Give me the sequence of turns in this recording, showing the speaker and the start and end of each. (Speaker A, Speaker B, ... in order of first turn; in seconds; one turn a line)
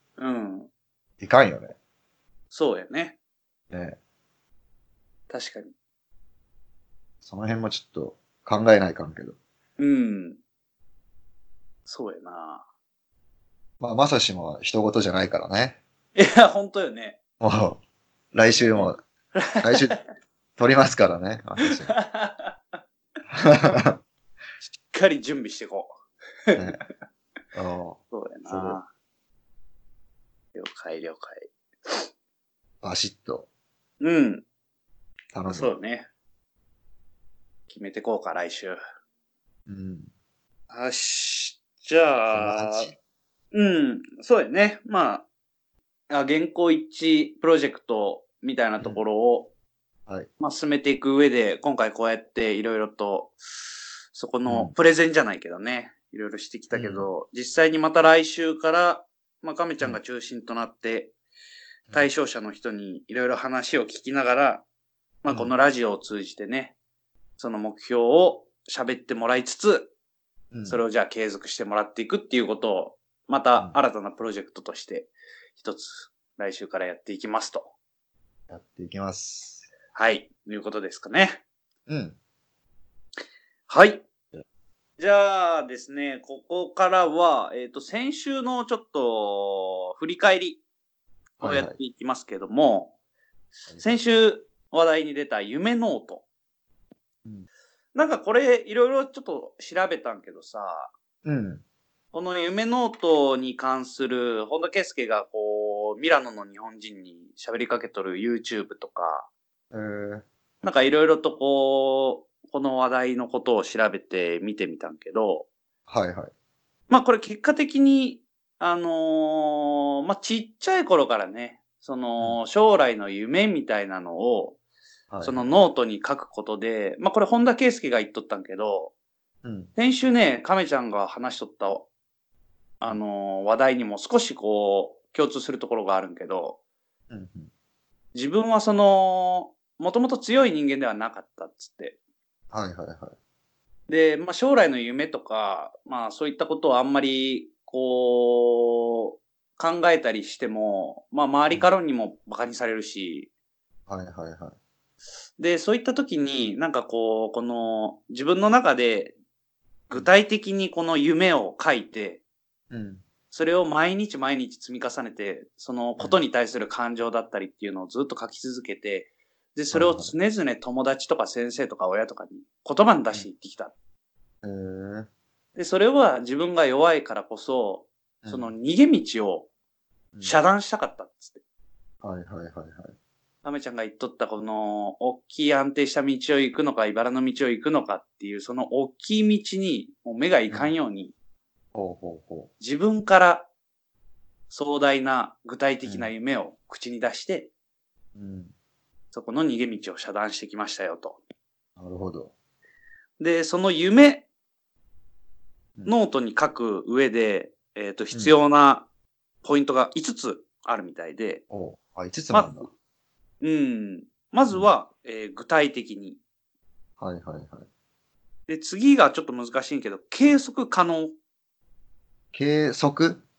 Speaker A: 0.2-0.7
Speaker B: 1.2-1.8
Speaker A: 2.5-3.2
Speaker B: 3.7-4.0
Speaker A: 5.3-5.7
Speaker B: 7.2-9.4
Speaker A: 9.8-10.4
Speaker A: 11.9-12.6
Speaker B: 13.8-15.8
Speaker A: 16.1-17.2
Speaker B: 17.4-17.8
Speaker B: 18.3-19.0
Speaker A: 18.7-20.0
Speaker B: 19.6-20.0
Speaker B: 20.6-21.9
Speaker A: 21.7-22.6
Speaker B: 23.3-24.0
Speaker A: 24.7-25.9
Speaker A: 26.5-26.8
Speaker B: 27.6-28.8
Speaker A: 28.1-28.9
Speaker A: 30.6-32.1
Speaker B: 32.8-33.5
Speaker A: 34.0-34.5
Speaker B: 35.3-35.7
Speaker A: 35.5-36.1
Speaker A: 37.7-38.8
Speaker B: 39.7-40.1
Speaker A: 40.7-42.9
Speaker B: 42.3-43.0
Speaker A: 43.5-45.2
Speaker A: 46.1-49.5
Speaker A: 50.4-53.4
Speaker A: 54.1-61.1
Speaker B: 54.5-54.7
Speaker B: 56.7-57.1
Speaker A: 61.9-64.7
Speaker A: 65.2-66.8
Speaker A: 67.4-69.9
Speaker B: 70.5-70.8
Speaker A: 70.7-77.7
Speaker B: 78.5-79.7
Speaker A: 79.9-81.4
Speaker B: 81.9-82.2
Speaker A: 83.7-84.0
Speaker A: 85.0-90.6
Speaker B: 91.4-91.7
Speaker A: 91.4-93.0
Speaker A: 93.8-96.2
Speaker A: 98.0-100.9
Speaker B: 101.2-101.6
Speaker A: 102.1-109.3
Speaker B: 109.7-110.2
Speaker A: 110.6-115.5
Speaker B: 115.9-116.3
Speaker A: 116.9-124.6
Speaker B: 125.1-125.6
Speaker A: 125.2-128.9
Speaker B: 129.4-129.7
Speaker A: 129.8-131.9
Speaker A: 132.8-136.6
Speaker B: 137.1-137.5
Speaker A: 138.2-142.0
Speaker B: 142.5-143.2
Speaker A: 143.9-153.3
Speaker B: 153.9-154.6
Speaker A: 155.4-159.2
Speaker A: 159.9-162.2
Speaker B: 162.7-163.0
Speaker A: 163.3-173.7
Speaker B: 169.7-170.1
Speaker B: 174.4-175.1
Speaker A: 175.6-179.5
Speaker B: 178.2-178.5
Speaker A: 180.2-181.4
Speaker B: 182.0-182.9
Speaker A: 183.4-191.1
Speaker B: 191.7-192.5
Speaker A: 192.6-193.5
Speaker A: 194.5-197.5
Speaker B: 198.2-198.5
Speaker A: 199.1-201.2
Speaker B: 201.8-202.3
Speaker A: 203.2-204.3
Speaker A: 205.8-208.9
Speaker B: 208.1-208.4
Speaker A: 209.4-211.4
Speaker B: 211.5-212.7
Speaker A: 212.3-212.7
Speaker A: 213.4-216.2
Speaker B: 217.0-217.7
Speaker A: 218.5-221.1
Speaker B: 222.3-223.2